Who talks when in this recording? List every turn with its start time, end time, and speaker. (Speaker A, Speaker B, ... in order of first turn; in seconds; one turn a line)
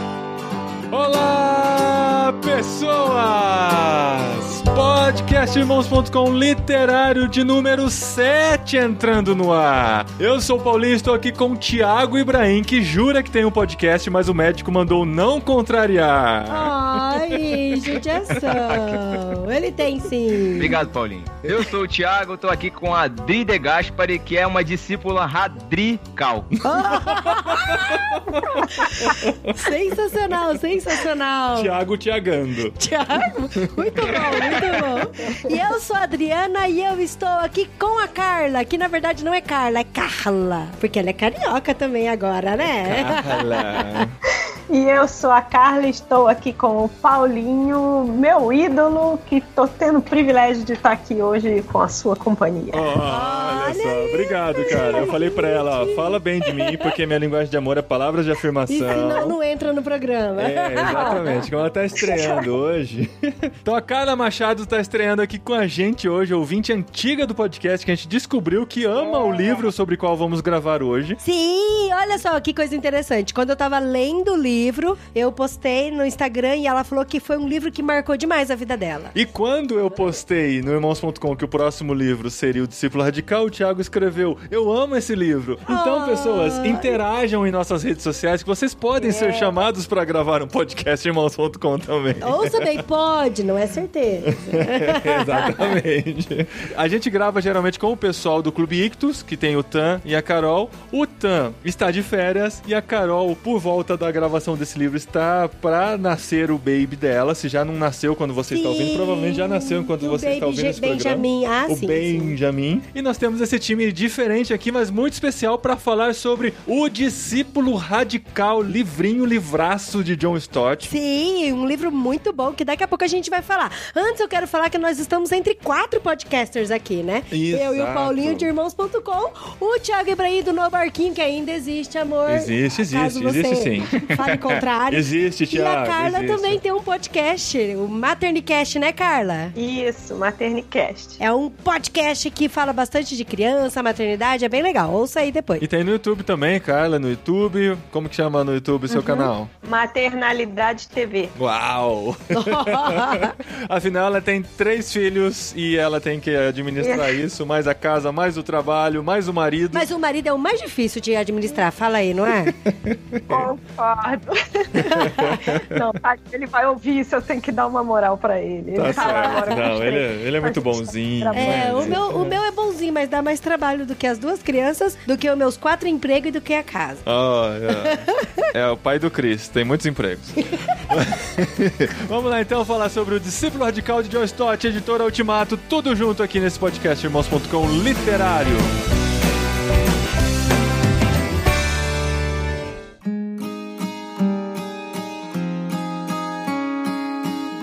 Speaker A: 0.9-18.5
Speaker B: 16.5-20.7
Speaker C: 18.5-19.2
Speaker C: 20.5-26.6
Speaker A: 26.6-29.7
Speaker B: 26.6-31.7
Speaker A: 31.5-35.0
Speaker B: 32.8-44.0
Speaker A: 42.8-44.1
Speaker D: 44.7-52.9
Speaker A: 52.7-59.4
Speaker B: 53.0-56.9
Speaker B: 58.7-61.4
Speaker A: 60.4-71.2
Speaker D: 60.9-61.3
Speaker D: 62.0-62.4
Speaker B: 71.2-79.1
Speaker A: 79.1-92.8
Speaker B: 85.7-87.0
Speaker B: 89.0-89.5
Speaker B: 92.2-95.5
Speaker A: 94.4-120.9
Speaker B: 108.5-112.3
Speaker B: 120.9-139.5
Speaker A: 127.3-128.5
Speaker A: 132.3-136.6
Speaker D: 139.5-141.2
Speaker B: 141.2-145.7
Speaker A: 145.6-149.5
Speaker D: 148.9-151.3
Speaker A: 151.3-159.9
Speaker B: 152.3-153.3
Speaker D: 156.8-157.2
Speaker B: 159.7-162.5
Speaker A: 162.4-163.5
Speaker D: 163.3-172.0
Speaker A: 164.8-165.6
Speaker B: 164.8-165.4
Speaker A: 168.7-172.4
Speaker B: 168.9-169.4
Speaker B: 171.3-177.0
Speaker A: 177.0-188.7
Speaker B: 177.8-178.4